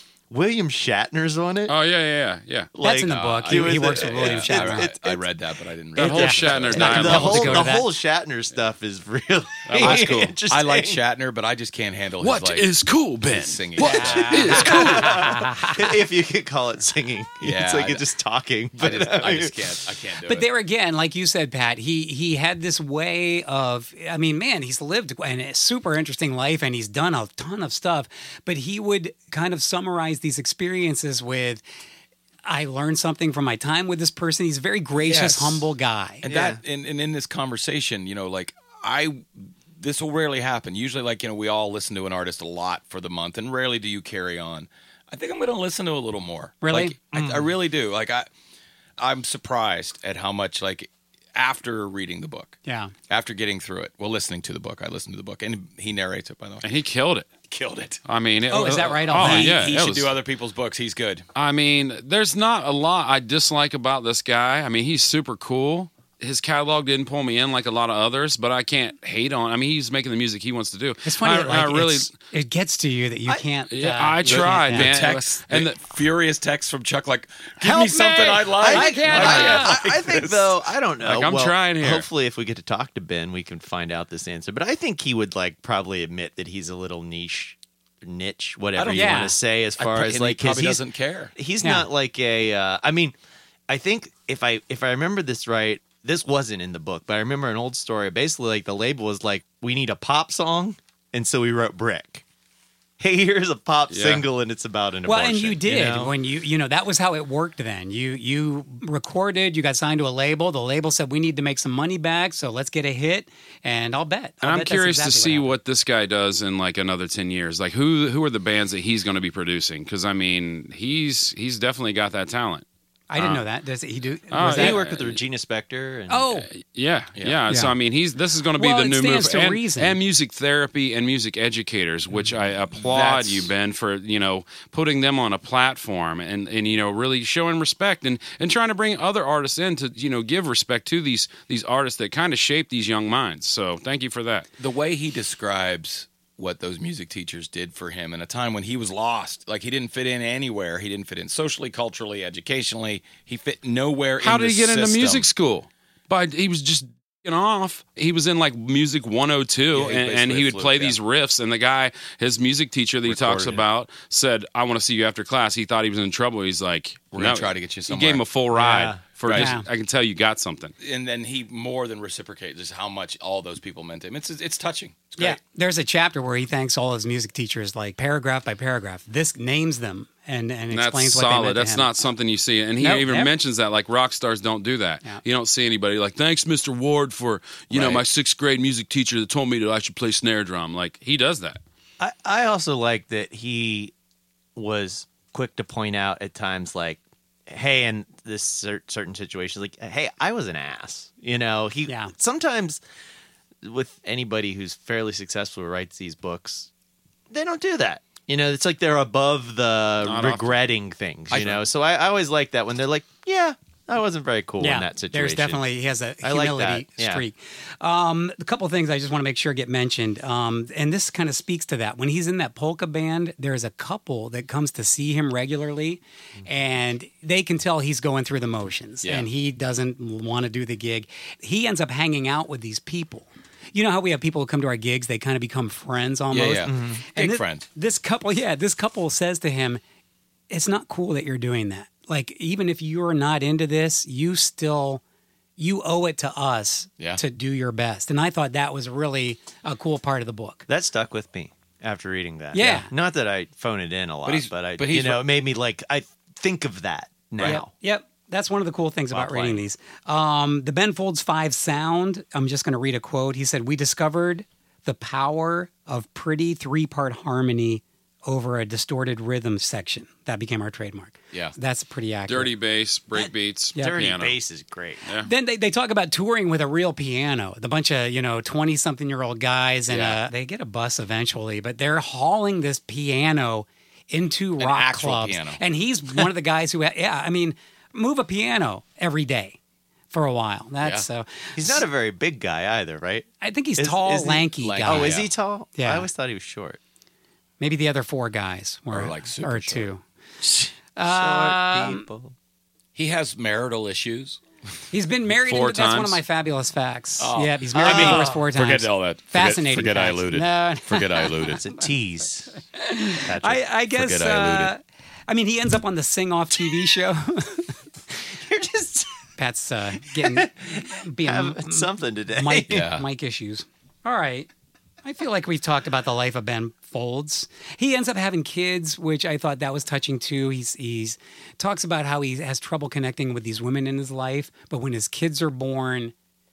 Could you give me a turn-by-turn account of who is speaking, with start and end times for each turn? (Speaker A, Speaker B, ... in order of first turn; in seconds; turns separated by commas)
Speaker A: 0.3-1.7, Speaker B: 1.7-2.7, Speaker A: 2.7-5.2, Speaker C: 2.8-4.9, Speaker D: 3.1-7.4, Speaker B: 6.0-7.8, Speaker C: 6.0-7.9, Speaker A: 6.3-11.0, Speaker B: 9.7-10.4, Speaker D: 9.8-12.7, Speaker B: 12.2-15.4, Speaker D: 13.3-14.8, Speaker C: 13.8-15.8, Speaker A: 14.3-19.7, Speaker D: 17.4-18.0, Speaker D: 18.8-20.5, Speaker C: 20.2-31.6, Speaker C: 32.5-36.2, Speaker D: 35.0-35.7, Speaker D: 36.2-48.3, Speaker A: 36.3-36.6, Speaker C: 46.6-47.0, Speaker A: 47.1-47.5, Speaker D: 49.0-52.6, Speaker C: 52.7-52.9, Speaker D: 53.1-56.6, Speaker B: 56.6-57.3, Speaker D: 57.5-58.0, Speaker B: 58.1-60.1, Speaker C: 58.5-59.6, Speaker D: 59.1-61.3, Speaker B: 61.4-72.1, Speaker C: 71.0-74.9, Speaker B: 73.7-75.8, Speaker D: 74.2-80.6, Speaker A: 77.7-90.8, Speaker B: 77.7-78.0, Speaker C: 78.7-79.8, Speaker B: 81.0-82.1, Speaker D: 88.8-91.3, Speaker C: 88.9-89.3, Speaker A: 91.4-93.2, Speaker C: 91.6-91.9, Speaker A: 93.7-102.2, Speaker A: 103.0-106.1, Speaker B: 103.9-104.2, Speaker C: 105.1-115.5, Speaker B: 114.4-122.7, Speaker C: 123.1-124.8, Speaker B: 124.3-125.2, Speaker A: 124.4-126.3, Speaker C: 126.1-126.5, Speaker B: 126.4-144.5, Speaker C: 127.5-127.7, Speaker C: 128.6-130.0, Speaker D: 132.8-133.5, Speaker D: 144.6-155.3, Speaker B: 154.2-170.7, Speaker D: 159.7-161.0, Speaker D: 163.1-163.6, Speaker D: 167.2-168.2, Speaker A: 168.5-169.0, Speaker D: 169.2-169.5, Speaker C: 169.3-169.7, Speaker D: 170.8-175.4, Speaker C: 175.2-181.9, Speaker B: 180.7-191.6, Speaker C: 182.8-183.3, Speaker D: 187.7-188.1, Speaker A: 192.0-193.9, Speaker A: 194.6-202.8, Speaker C: 201.9-202.1, Speaker A: 203.6-206.7, Speaker A: 207.3-215.6, Speaker B: 210.0-210.6, Speaker D: 211.3-211.6, Speaker C: 214.6-239.8, Speaker A: 216.2-217.2, Speaker D: 236.3-237.7, Speaker A: 236.7-237.0, Speaker C: 240.5-245.0, Speaker C: 245.6-250.7, Speaker A: 250.7-257.7, Speaker C: 252.5-252.9, Speaker D: 254.3-255.2, Speaker C: 257.4-272.5, Speaker A: 259.1-259.6, Speaker B: 272.3-274.4, Speaker C: 273.8-274.0, Speaker A: 273.8-275.0, Speaker C: 275.2-289.6, Speaker D: 279.9-280.2, Speaker D: 284.6-285.6, Speaker C: 290.1-291.8, Speaker A: 291.6-296.8, Speaker C: 293.4-295.2, Speaker D: 294.6-295.3, Speaker C: 295.8-296.1, Speaker C: 297.6-300.0, Speaker D: 298.9-299.9, Speaker A: 300.4-302.4, Speaker C: 301.0-302.1, Speaker D: 302.9-304.4, Speaker C: 304.9-311.8, Speaker B: 305.5-306.2, Speaker D: 307.2-311.6, Speaker A: 307.8-308.4, Speaker A: 311.5-312.5, Speaker C: 312.8-317.8, Speaker A: 313.2-313.6, Speaker D: 313.9-314.7, Speaker A: 318.3-319.2, Speaker C: 319.4-324.5, Speaker A: 320.1-322.9, Speaker D: 322.7-323.0, Speaker C: 325.0-336.1